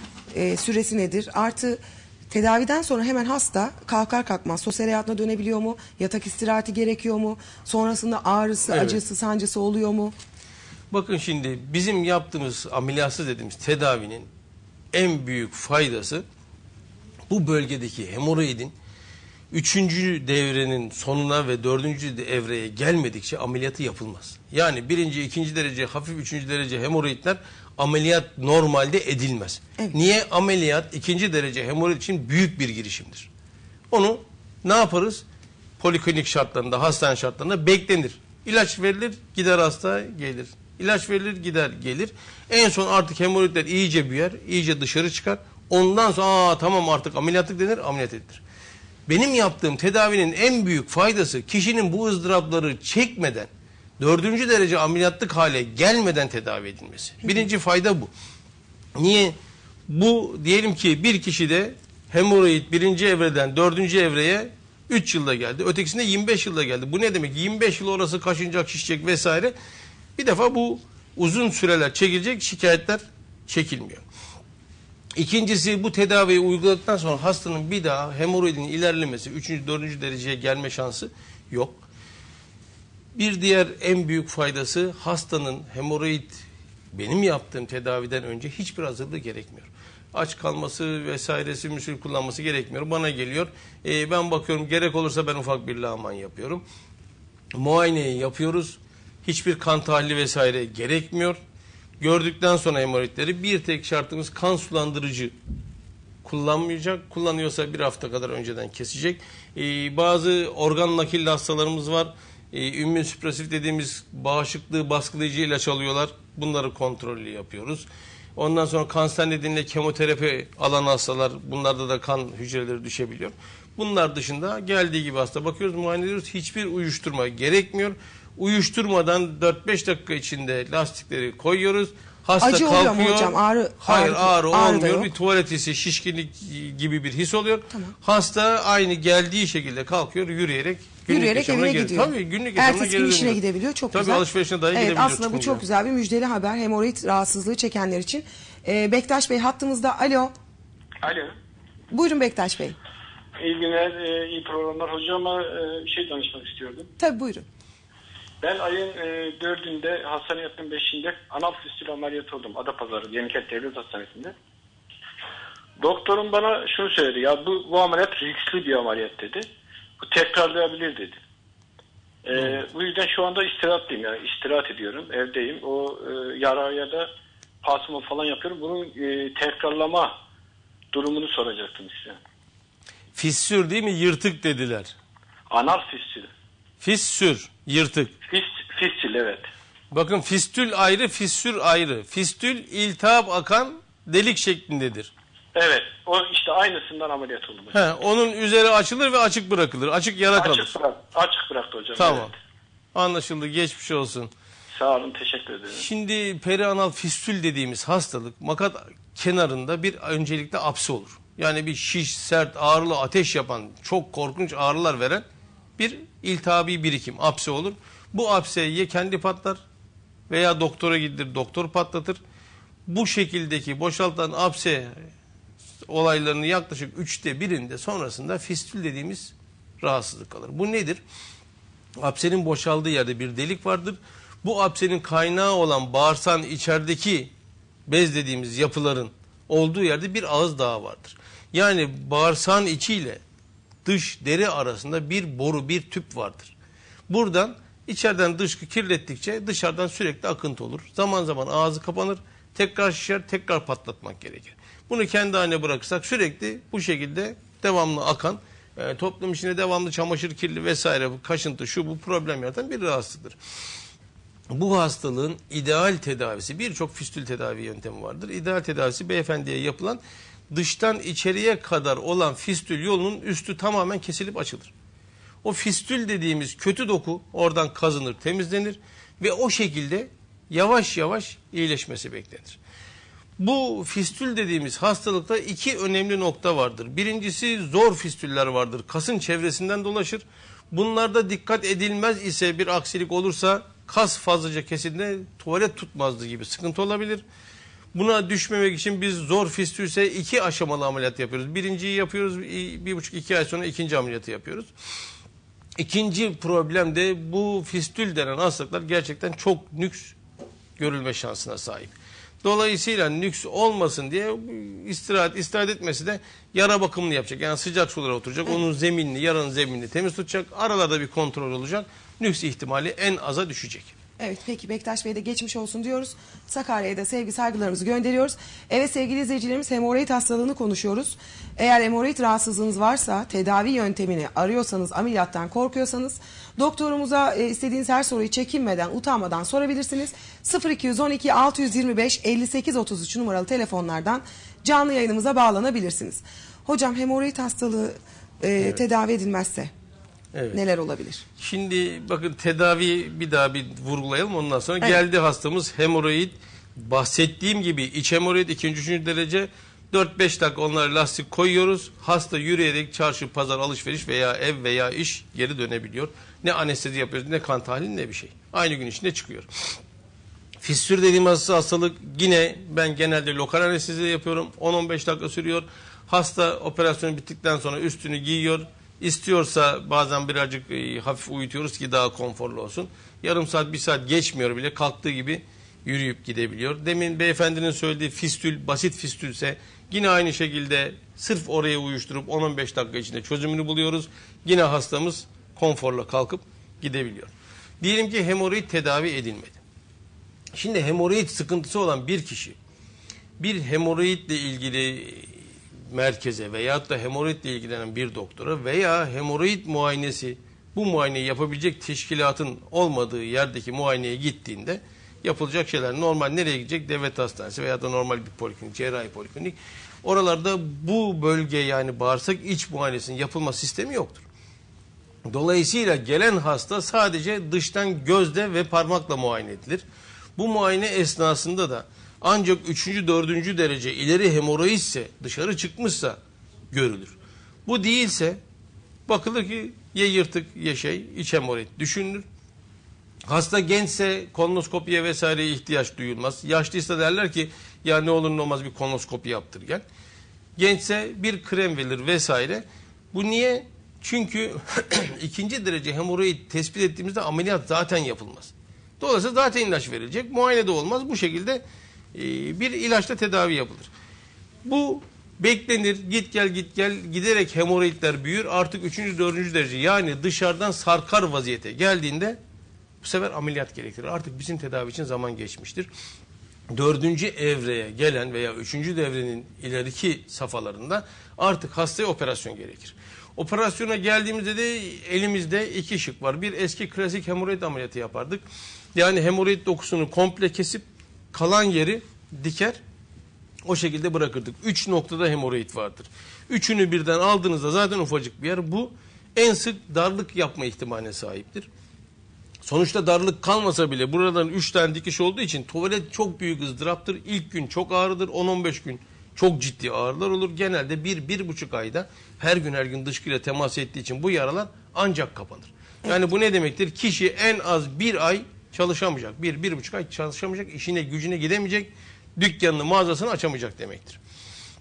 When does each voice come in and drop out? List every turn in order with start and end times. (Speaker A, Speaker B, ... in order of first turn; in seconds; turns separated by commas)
Speaker A: 0.3-10.2, Speaker B: 8.7-9.0, Speaker B: 10.9-14.3, Speaker B: 14.9-16.2, Speaker B: 17.3-18.7, Speaker B: 19.5-33.3, Speaker B: 33.9-35.2, Speaker B: 35.8-48.4, Speaker B: 49.1-53.5, Speaker B: 54.0-58.1, Speaker B: 59.0-59.4, Speaker B: 59.9-69.5, Speaker B: 70.2-74.0, Speaker B: 75.2-81.8, Speaker B: 83.2-96.6, Speaker B: 97.5-101.4, Speaker B: 102.0-105.3, Speaker B: 106.2-143.4, Speaker A: 132.4-135.1, Speaker A: 141.1-150.3, Speaker B: 143.9-145.6, Speaker C: 151.0-151.3, Speaker A: 151.9-152.8, Speaker C: 153.4-156.9, Speaker A: 157.0-157.5, Speaker C: 158.4-164.3, Speaker C: 165.8-169.4, Speaker C: 170.0-171.2, Speaker C: 172.2-177.1, Speaker C: 177.6-180.1, Speaker C: 180.9-182.2, Speaker B: 183.2-185.0, Speaker C: 185.5-186.3, Speaker B: 186.8-188.1, Speaker C: 188.3-189.5, Speaker B: 189.9-195.1, Speaker C: 195.6-197.8, Speaker B: 197.7-200.7, Speaker C: 200.3-202.3, Speaker B: 202.0-202.3, Speaker B: 202.9-204.3, Speaker C: 204.7-205.9, Speaker B: 205.7-215.2, Speaker B: 215.8-219.6, Speaker B: 220.3-222.2, Speaker B: 222.9-225.1, Speaker B: 225.9-231.0, Speaker B: 232.0-237.3, Speaker B: 237.9-243.2, Speaker B: 243.8-246.6, Speaker B: 247.1-263.4, Speaker B: 264.5-274.7, Speaker B: 275.4-282.6, Speaker B: 283.4-297.2, Speaker B: 297.9-304.7, Speaker B: 305.8-310.2, Speaker B: 310.8-323.9, Speaker A: 324.2-349.7, Speaker B: 350.3-350.6, Speaker A: 350.5-351.2, Speaker B: 351.4-369.5, Speaker B: 370.6-399.6, Speaker B: 400.5-402.6, Speaker B: 403.4-424.2, Speaker B: 425.3-429.8, Speaker B: 430.4-436.2, Speaker B: 436.7-438.4, Speaker B: 439.1-442.2, Speaker B: 443.3-449.8, Speaker B: 450.6-461.6, Speaker B: 462.1-463.9, Speaker B: 464.6-472.4, Speaker B: 473.0-475.9, Speaker B: 476.7-488.4, Speaker B: 488.9-492.8, Speaker B: 493.6-501.7, Speaker B: 502.6-524.2